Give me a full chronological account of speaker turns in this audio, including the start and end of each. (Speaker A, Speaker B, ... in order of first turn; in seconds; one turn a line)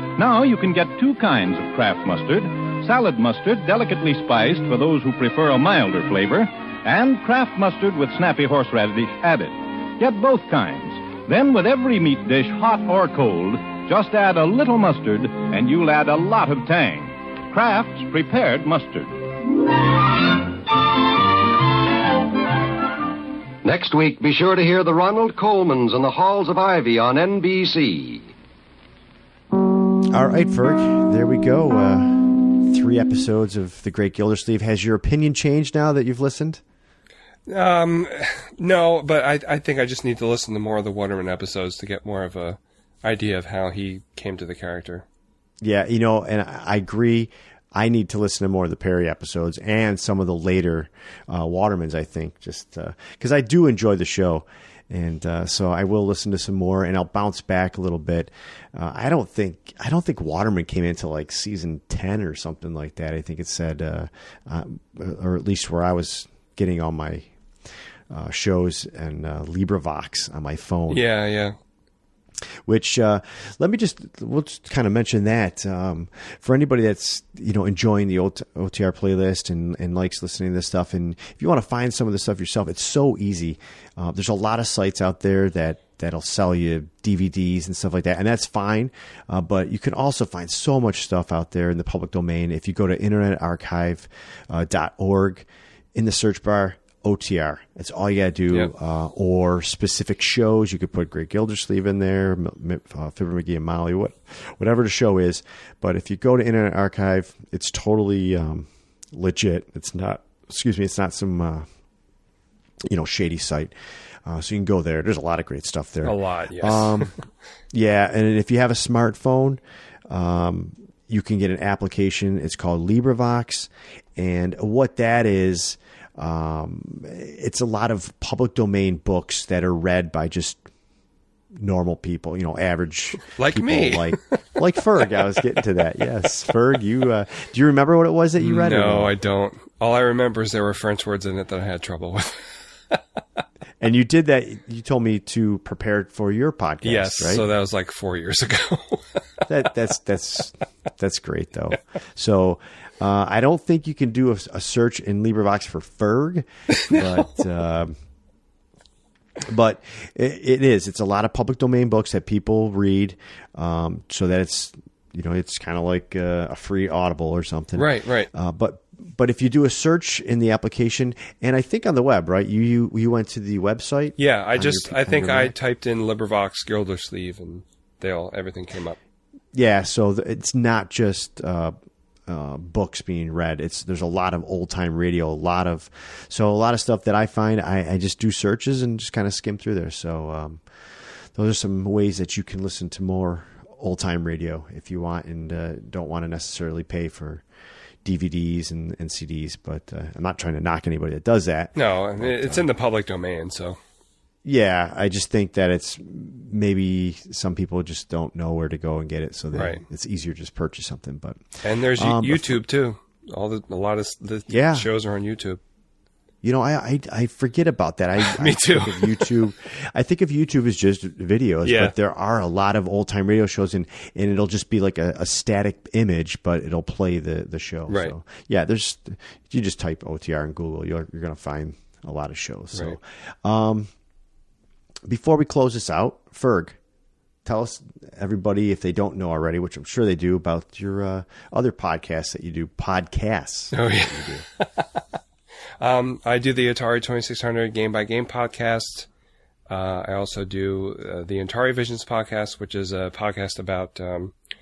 Speaker A: 0.1-19.1
Speaker B: 23.6-28.3
Speaker C: 30.1-36.6
Speaker D: 37.5-45.0
Speaker C: 45.6-67.3
Speaker C: 68.1-71.0
Speaker D: 70.9-71.5
Speaker C: 72.7-111.6
Speaker C: 112.9-113.7
Speaker C: 114.2-117.1
Speaker D: 116.0-117.1
Speaker C: 117.7-130.6
Speaker C: 131.6-139.1
Speaker D: 133.3-134.2
Speaker D: 138.4-142.3
Speaker C: 143.8-147.4
Speaker D: 146.8-149.0
Speaker C: 149.5-157.9
Speaker C: 159.4-175.6
Speaker D: 167.8-168.3
Speaker D: 174.2-179.0
Speaker C: 179.5-181.7
Speaker C: 182.3-190.6
Speaker C: 191.3-197.4
Speaker C: 198.0-202.7
Speaker D: 201.7-203.8
Speaker C: 204.4-211.4
Speaker D: 209.5-209.8
Speaker D: 211.6-215.6
Speaker C: 211.9-212.6
Speaker C: 214.5-214.9
Speaker C: 216.4-233.9
Speaker D: 218.2-219.2
Speaker D: 221.6-221.9
Speaker D: 227.9-228.1
Speaker C: 235.1-236.8
Speaker C: 237.4-244.4
Speaker D: 243.7-244.7
Speaker D: 245.8-249.1
Speaker D: 249.7-254.3